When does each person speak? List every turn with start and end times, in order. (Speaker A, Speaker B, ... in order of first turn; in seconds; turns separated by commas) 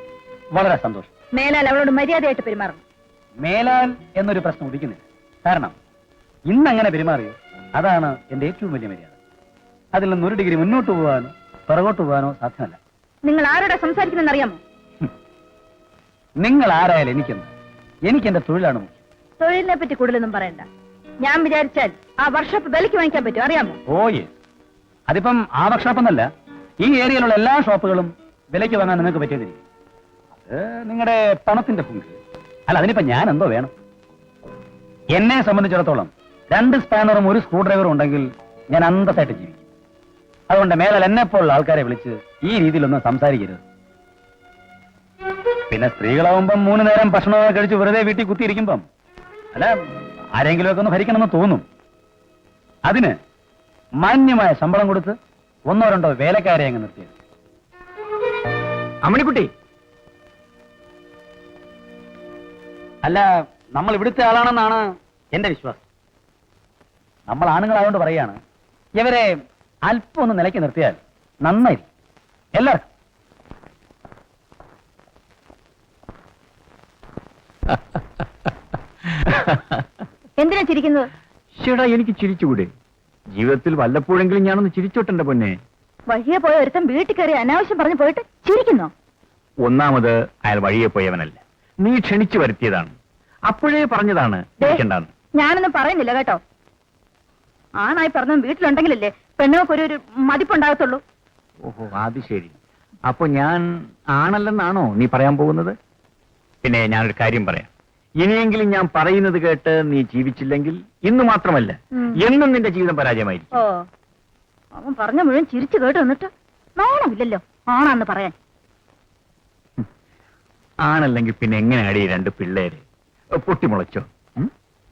Speaker A: 0.5-1.1, Speaker B: 1.4-2.8, Speaker A: 3.4-5.7, Speaker A: 6.5-9.1, Speaker A: 9.9-12.8, Speaker B: 13.3-14.6, Speaker A: 16.4-17.5, Speaker A: 18.1-18.9, Speaker B: 19.4-20.7, Speaker B: 21.2-23.8, Speaker A: 23.9-24.3, Speaker A: 25.1-26.3, Speaker A: 26.8-29.6, Speaker A: 30.4-32.2, Speaker A: 32.7-33.7, Speaker A: 35.1-39.6, Speaker A: 40.5-43.6, Speaker A: 45.7-48.9, Speaker A: 50.4-51.6, Speaker A: 52.9-53.1, Speaker A: 54.0-55.2, Speaker A: 55.7-57.1, Speaker C: 59.0-59.5, Speaker A: 63.0-65.8, Speaker A: 67.3-68.4, Speaker A: 69.0-69.3, Speaker A: 69.9-71.9, Speaker B: 80.4-81.1, Speaker C: 81.6-82.7, Speaker C: 83.3-85.5, Speaker B: 86.1-88.9, Speaker C: 89.6-93.0, Speaker C: 93.5-95.1, Speaker B: 95.4-96.4, Speaker B: 97.8-101.0, Speaker C: 101.7-102.6, Speaker C: 103.1-105.8, Speaker C: 106.6-113.5, Speaker B: 114.8-118.3, Speaker C: 120.8-122.8, Speaker C: 123.4-124.5